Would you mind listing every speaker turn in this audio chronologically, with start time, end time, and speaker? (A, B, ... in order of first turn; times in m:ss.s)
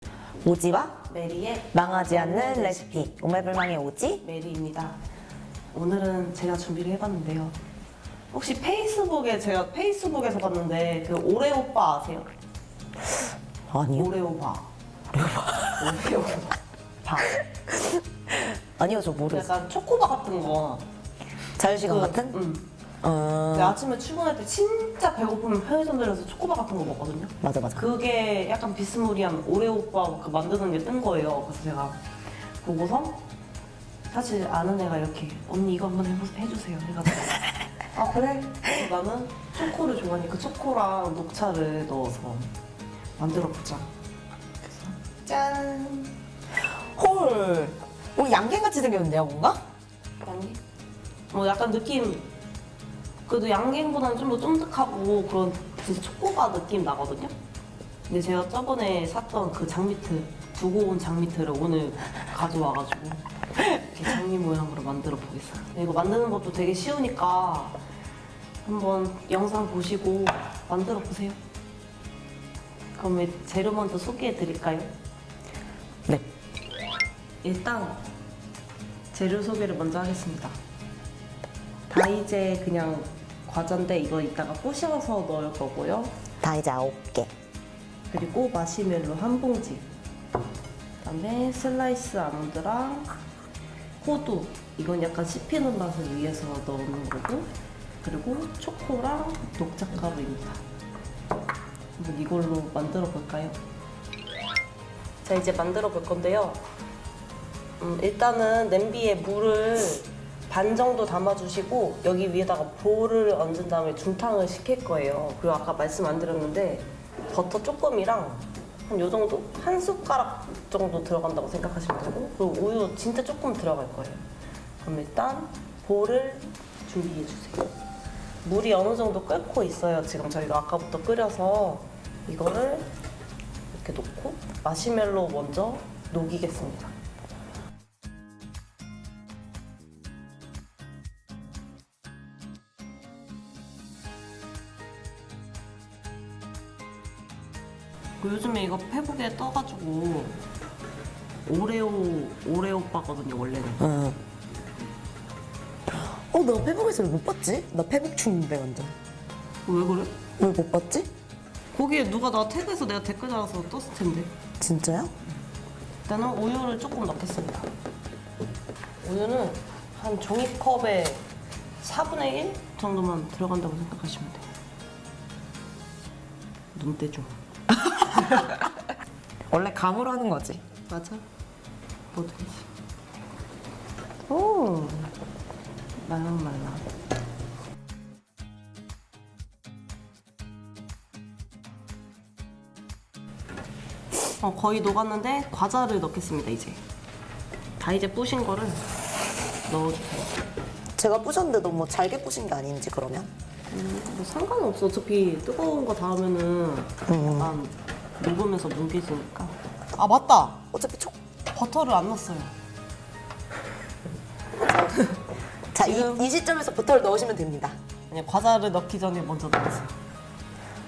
0:00.4-0:01.0 A
0:01.1-0:03.0 B
0:01.7-0:04.2 A
0:04.2-0:05.0 B
0:05.7-0:07.6 B
0:08.3-0:12.3 B
0:13.7-0:14.1 A
0:13.9-0:14.7 B
0:15.1-0:16.0 A
0:15.8-0:17.4 B
0:17.4-0:19.5 A
0:19.0-0:20.8 B
0:21.6-0:22.4 A
0:21.6-0:22.7 B
0:23.0-0:23.8 A
0:23.5-0:32.0 B
0:27.4-0:27.8 A
0:32.6-0:33.2 B
0:34.1-0:42.5 B
0:43.2-0:43.9 B
0:44.6-0:46.1 B
0:46.9-0:49.6 A
0:50.2-0:50.6 B
0:51.3-0:52.3 B
0:53.2-0:57.3 B
0:58.1-1:07.8 B
1:08.6-1:11.4 B
1:13.0-1:14.9 B
1:17.4-1:18.0 B
1:19.1-1:20.6 B
1:21.9-1:26.2 B
1:26.4-1:27.3 A
1:28.1-1:29.9 B
1:31.0-1:33.1 B
1:34.0-1:37.5 B
1:38.0-1:40.6 B
1:42.0-1:43.6 B
1:45.2-1:46.6 B
1:47.8-2:04.2 B
2:04.8-2:07.7 B
2:08.4-2:12.9 B
2:13.7-2:16.9 B
2:28.2-2:30.4 B
2:31.4-2:33.9 B
2:33.8-2:34.2 A
2:35.9-2:38.9 A
2:39.6-2:40.2 B
2:40.4-2:41.1 A
2:41.7-2:44.3 B
2:44.6-2:45.1 A
2:46.0-2:47.7 B
2:49.0-2:51.2 B
2:51.8-2:54.4 B
2:56.7-2:57.4 B
2:57.8-2:58.7 A
2:59.5-3:00.6 A
3:00.9-3:01.2 B
3:02.1-3:02.7 B
3:04.3-3:05.1 B
3:06.0-3:06.8 B
3:14.4-3:16.8 B
3:17.8-3:18.8 B
3:19.7-3:20.4 B
3:21.0-3:23.3 A
3:23.7-3:30.6 B
3:27.1-3:27.5 A
3:30.7-3:31.1 A
3:31.5-3:32.5 B
3:34.6-3:35.0 A
3:34.9-3:35.2 B
3:35.7-3:37.8 A
3:35.8-3:36.2 B
3:38.1-3:39.9 B